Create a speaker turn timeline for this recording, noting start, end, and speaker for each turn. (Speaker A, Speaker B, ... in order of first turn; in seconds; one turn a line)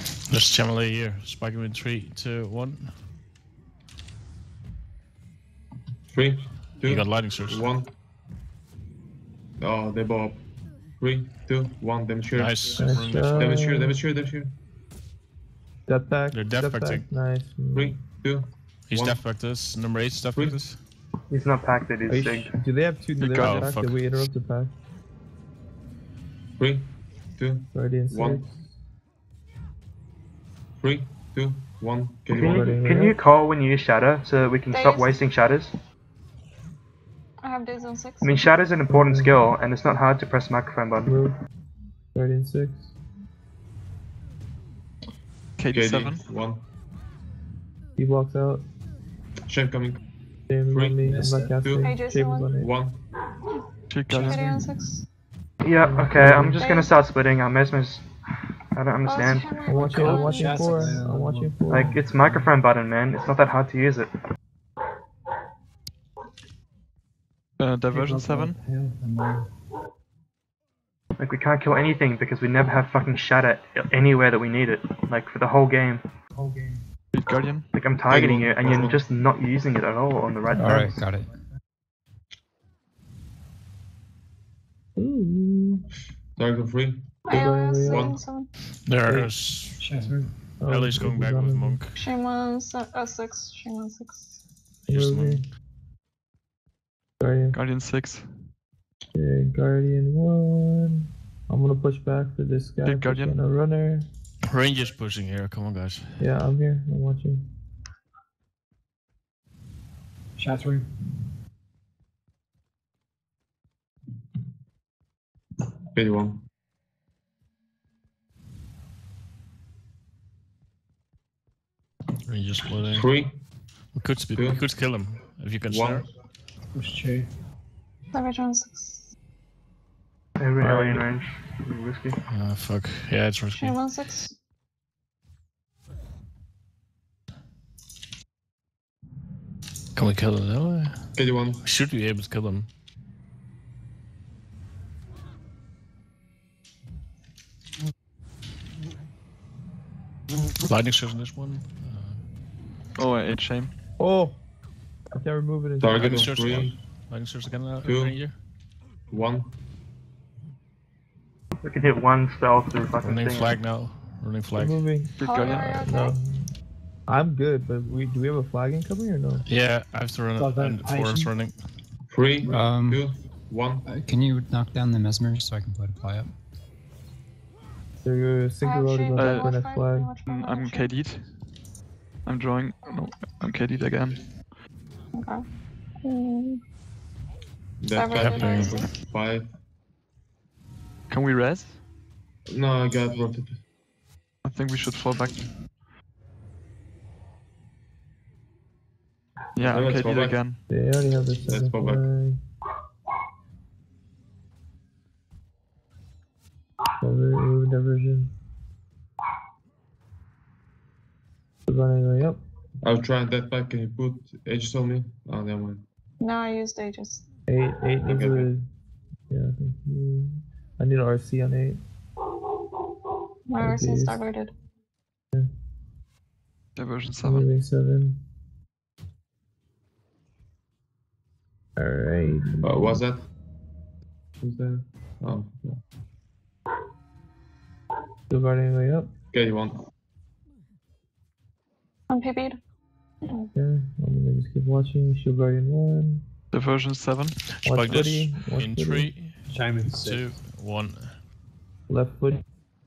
Speaker A: 0.3-2.9
Speaker B: 6.1-7.9
Speaker A: 6.8-7.7
Speaker B: 9.6-10.4
Speaker B: 11.0-14.6
Speaker A: 12.3-13.6
Speaker C: 12.8-14.0
Speaker C: 15.9-18.0
Speaker A: 16.3-17.1
Speaker B: 17.7-19.2
Speaker A: 18.9-20.8
Speaker B: 20.3-20.6
Speaker D: 21.3-22.5
Speaker C: 22.1-24.7
Speaker E: 23.2-23.7
Speaker A: 23.4-24.0
Speaker B: 26.6-28.4
Speaker C: 27.7-28.6
Speaker B: 30.8-32.9
Speaker C: 32.3-33.2
Speaker D: 32.4-35.7
Speaker F: 34.7-35.2
Speaker F: 37.4-38.5
Speaker D: 38.2-41.2
Speaker C: 38.9-39.5
Speaker C: 41.0-41.4
Speaker C: 42.1-42.9
Speaker E: 45.6-46.2
Speaker B: 45.7-46.6
Speaker C: 48.0-48.6
Speaker B: 49.5-50.0
Speaker C: 50.5-52.7
Speaker B: 50.7-51.9
Speaker G: 51.0-51.6
Speaker F: 51.7-52.5
Speaker B: 52.5-53.0
Speaker E: 53.9-54.4
Speaker G: 54.1-54.8
Speaker F: 54.2-55.0
Speaker D: 55.6-58.1
Speaker C: 55.8-56.7
Speaker F: 56.5-56.9
Speaker D: 58.7-59.6
Speaker F: 59.0-60.8
Speaker C: 59.7-62.0
Speaker G: 59.7-62.7
Speaker D: 61.7-64.1
Speaker E: 67.6-68.6
Speaker G: 67.9-69.5
Speaker D: 71.2-76.0
Speaker G: 76.3-76.8
Speaker E: 77.1-77.7
Speaker D: 77.7-81.1
Speaker B: 78.0-79.0
Speaker H: 80.5-81.3
Speaker C: 85.0-85.8
Speaker B: 86.4-87.2
Speaker F: 87.3-88.5
Speaker C: 87.3-88.1
Speaker B: 87.8-88.2
Speaker A: 88.8-89.8
Speaker C: 89.0-89.3
Speaker G: 89.8-90.3
Speaker C: 90.6-91.8
Speaker A: 90.7-92.0
Speaker F: 92.0-94.4
Speaker A: 94.8-95.4
Speaker C: 94.9-95.4
Speaker C: 97.2-97.6
Speaker E: 97.5-98.3
Speaker C: 99.1-104.1
Speaker E: 102.8-103.4
Speaker A: 104.5-106.3
Speaker C: 106.2-107.5
Speaker G: 110.4-110.9
Speaker B: 115.9-116.4
Speaker A: 122.2-123.1
Speaker B: 122.8-123.4
Speaker A: 123.9-126.0
Speaker B: 124.3-124.7
Speaker B: 125.7-126.0
Speaker G: 126.7-127.3
Speaker F: 128.1-129.1
Speaker D: 130.4-132.2
Speaker G: 130.6-131.0
Speaker A: 132.3-133.8
Speaker F: 133.5-134.3
Speaker A: 139.9-142.7
Speaker B: 141.1-141.6
Speaker A: 150.6-152.2
Speaker E: 152.9-153.7
Speaker C: 154.0-154.3
Speaker C: 155.1-156.2
Speaker B: 155.8-156.8
Speaker A: 155.9-158.4
Speaker B: 157.8-158.2
Speaker B: 159.1-159.6
Speaker D: 161.6-163.6
Speaker A: 163.0-164.8
Speaker C: 164.6-166.5
Speaker E: 165.2-165.9
Speaker F: 165.2-166.2
Speaker C: 167.1-169.4
Speaker A: 169.4-171.6
Speaker G: 170.3-171.3
Speaker B: 172.1-173.9
Speaker H: 172.4-173.0
Speaker H: 173.8-176.3
Speaker C: 178.0-180.1
Speaker F: 178.6-180.9
Speaker E: 179.1-179.6
Speaker E: 180.2-181.3
Speaker E: 182.2-184.2
Speaker F: 185.1-185.4
Speaker F: 186.0-186.6
Speaker B: 187.8-189.5
Speaker F: 187.9-188.9
Speaker A: 188.2-188.8
Speaker E: 191.1-191.8
Speaker B: 192.5-193.6
Speaker E: 194.4-195.5
Speaker E: 199.5-200.6
Speaker B: 199.6-200.4
Speaker C: 200.7-202.4
Speaker B: 201.4-202.1
Speaker C: 207.0-208.3
Speaker C: 211.7-212.4
Speaker B: 212.8-215.8
Speaker F: 216.2-217.2
Speaker C: 217.5-218.6
Speaker B: 218.1-218.5
Speaker C: 219.3-221.8
Speaker F: 223.5-224.5
Speaker C: 223.6-224.3
Speaker E: 226.8-227.5
Speaker C: 227.2-228.2
Speaker C: 231.8-233.0
Speaker B: 232.6-233.2
Speaker B: 234.4-235.8
Speaker C: 238.3-239.1
Speaker B: 239.3-239.8
Speaker F: 242.1-242.6
Speaker C: 243.5-246.2
Speaker E: 246.5-247.4
Speaker A: 247.6-249.3
Speaker C: 247.6-249.1
Speaker G: 249.5-250.4
Speaker A: 249.9-251.2
Speaker C: 251.9-252.4